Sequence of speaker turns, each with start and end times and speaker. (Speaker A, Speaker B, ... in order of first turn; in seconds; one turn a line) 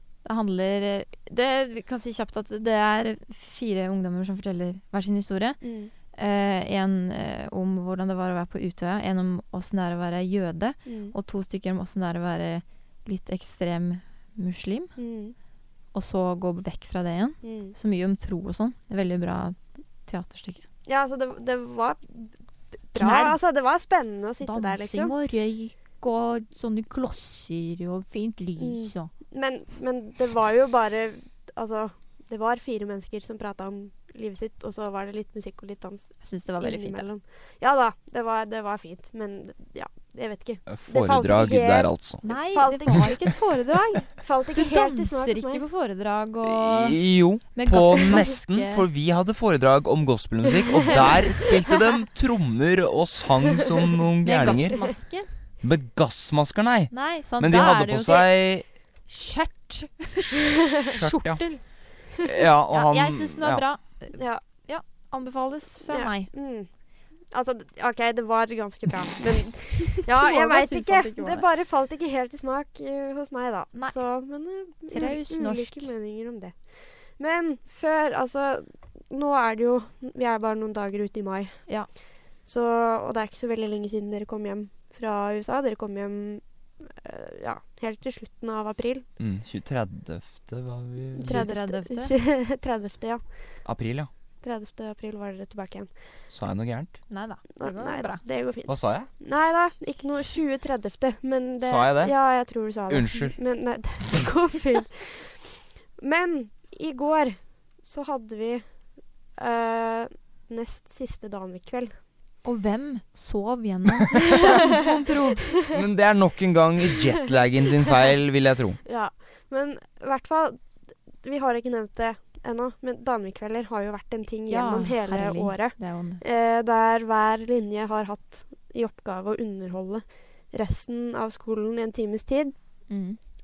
Speaker A: 0.2-14.9
Speaker B: 5.6-5.9
Speaker B: 10.8-11.1
Speaker B: 14.9-15.3
Speaker A: 15.9-20.6
Speaker B: 17.4-17.8
Speaker B: 20.9-25.1
Speaker A: 22.9-23.4
Speaker A: 24.4-29.1
Speaker B: 28.6-43.5
Speaker A: 36.2-37.0
Speaker C: 40.7-42.2
Speaker A: 42.2-48.9
Speaker B: 44.1-45.6
Speaker C: 46.4-55.0
Speaker B: 51.0-51.4
Speaker A: 54.2-55.3
Speaker B: 54.4-54.9
Speaker C: 55.6-58.6
Speaker A: 56.9-61.7
Speaker C: 61.0-63.6
Speaker A: 62.7-66.3
Speaker B: 64.1-64.4
Speaker B: 65.9-66.7
Speaker B: 67.3-89.1
Speaker A: 69.8-71.4
Speaker A: 73.7-74.2
Speaker A: 74.9-75.9
Speaker C: 89.2-91.5
Speaker B: 91.1-93.7
Speaker A: 91.2-92.1
Speaker C: 93.6-94.1
Speaker B: 94.4-96.2
Speaker C: 96.3-97.0
Speaker A: 97.1-98.2
Speaker B: 97.5-112.0
Speaker C: 98.7-99.1
Speaker C: 101.6-102.2
Speaker C: 102.9-103.4
Speaker A: 112.4-115.4
Speaker C: 115.7-118.8
Speaker B: 118.8-132.5
Speaker A: 124.5-126.2
Speaker A: 132.9-133.2